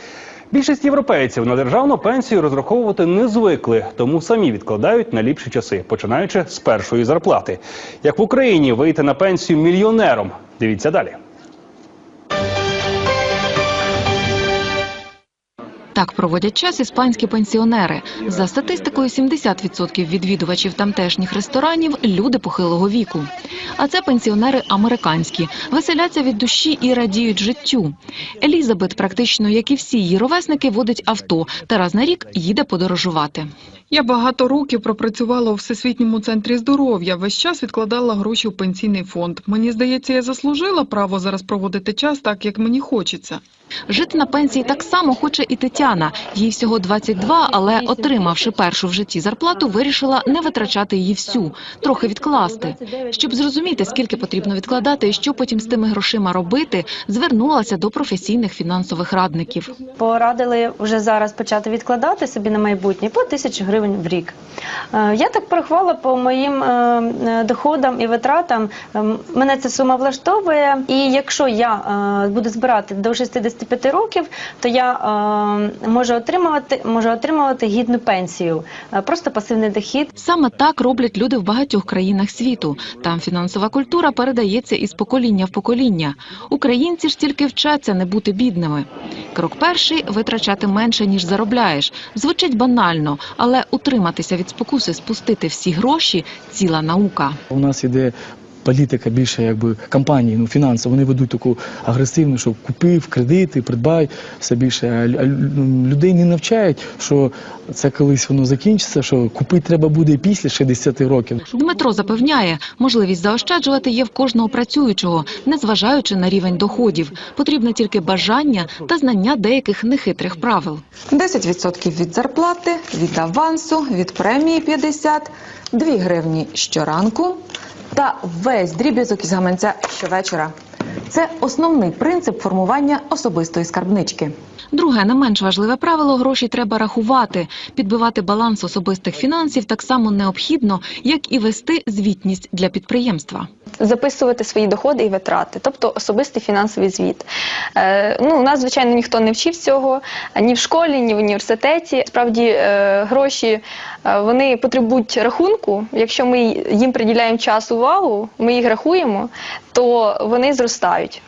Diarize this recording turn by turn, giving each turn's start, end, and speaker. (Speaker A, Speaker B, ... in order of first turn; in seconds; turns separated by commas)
Speaker A: 0.5-11.2, Speaker B: 15.9-33.5, Speaker C: 34.0-43.4, Speaker B: 43.9-59.8, Speaker D: 60.0-64.4, Speaker D: 64.9-80.1, Speaker B: 80.2-97.4, Speaker E: 97.5-111.4, Speaker B: 111.5-120.8, Speaker F: 121.1-127.4, Speaker F: 127.9-130.5, Speaker F: 131.1-134.3, Speaker B: 134.7-143.5, Speaker G: 143.9-147.2, Speaker G: 147.8-153.5, Speaker G: 154.1-159.2, Speaker G: 159.8-161.1